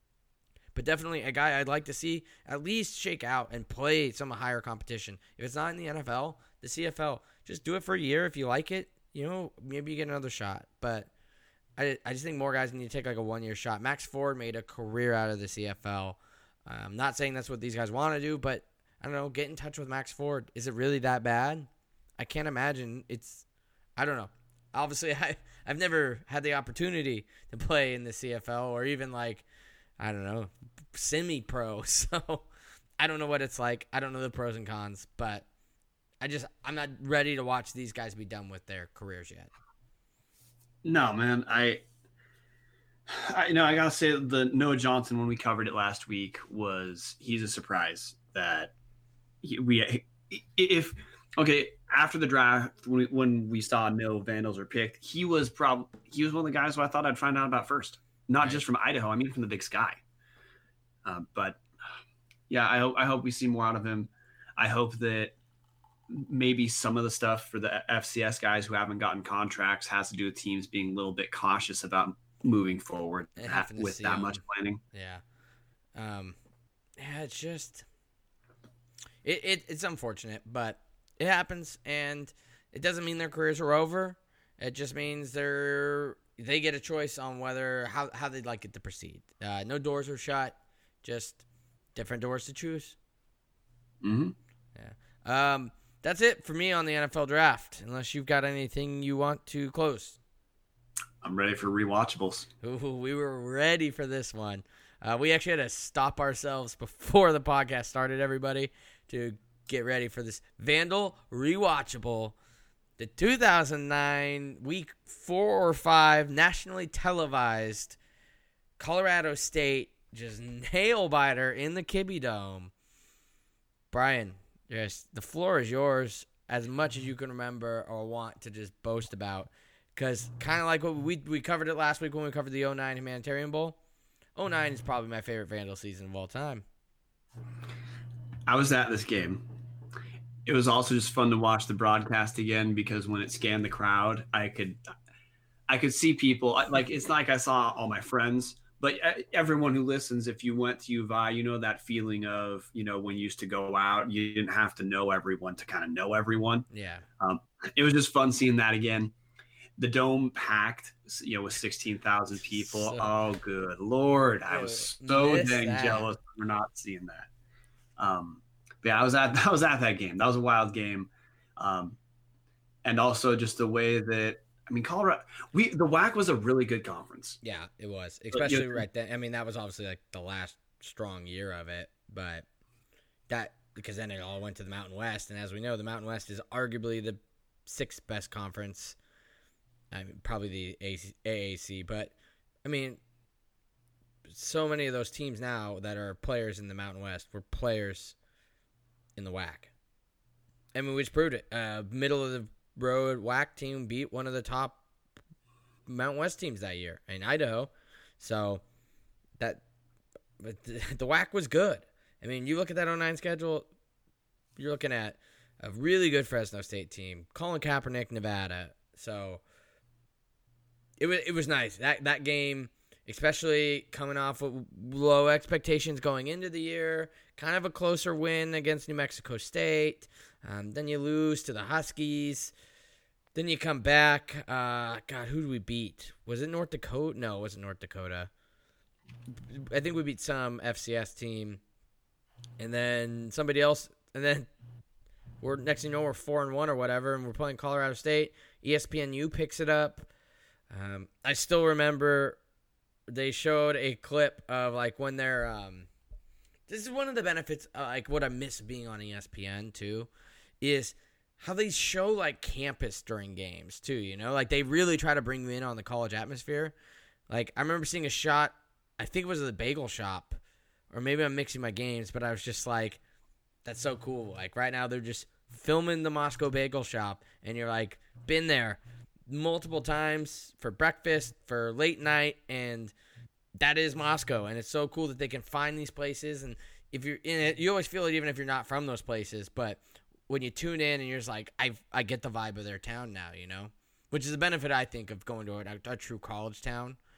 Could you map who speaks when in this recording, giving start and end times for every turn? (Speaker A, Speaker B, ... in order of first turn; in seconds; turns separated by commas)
Speaker A: 0.7-11.1, Speaker A: 11.8-21.7, Speaker A: 22.2-23.4, Speaker A: 24.0-29.4, Speaker A: 30.0-32.5, Speaker A: 33.0-35.5, Speaker A: 36.2-39.5, Speaker B: 40.9-41.8, Speaker B: 43.1-48.7, Speaker B: 49.4-60.0, Speaker B: 61.0-61.6, Speaker B: 62.5-65.3, Speaker B: 66.1-74.8, Speaker A: 73.4-75.2, Speaker A: 76.0-76.3, Speaker A: 77.0-77.8, Speaker A: 79.2-91.4, Speaker A: 91.9-93.0, Speaker B: 94.0-94.3, Speaker A: 94.8-100.2, Speaker B: 101.2-102.5, Speaker A: 102.6-112.3, Speaker A: 113.0-118.0, Speaker A: 118.8-122.7, Speaker A: 123.9-133.8, Speaker A: 134.3-136.6, Speaker B: 138.5-139.4, Speaker B: 140.4-144.8, Speaker B: 145.7-156.7, Speaker A: 156.7-157.0, Speaker B: 157.2-159.1, Speaker B: 159.8-167.3, Speaker A: 162.6-163.1, Speaker A: 164.5-166.1, Speaker B: 168.0-172.0, Speaker B: 172.8-177.4, Speaker A: 177.4-182.4, Speaker B: 178.3-178.8, Speaker A: 183.3-189.0, Speaker A: 189.9-193.0, Speaker A: 194.3-198.2, Speaker A: 199.2-199.7, Speaker A: 200.8-204.8, Speaker A: 205.9-208.6, Speaker A: 210.4-213.7, Speaker A: 214.6-219.4, Speaker A: 221.0-232.5, Speaker A: 233.3-238.3, Speaker A: 239.5-241.6, Speaker A: 242.6-244.5, Speaker A: 245.4-250.1, Speaker A: 250.7-252.4, Speaker A: 253.1-255.9, Speaker A: 256.7-260.1, Speaker A: 260.6-266.8, Speaker A: 267.3-270.4, Speaker A: 270.9-273.0, Speaker A: 273.6-282.9, Speaker A: 283.6-297.0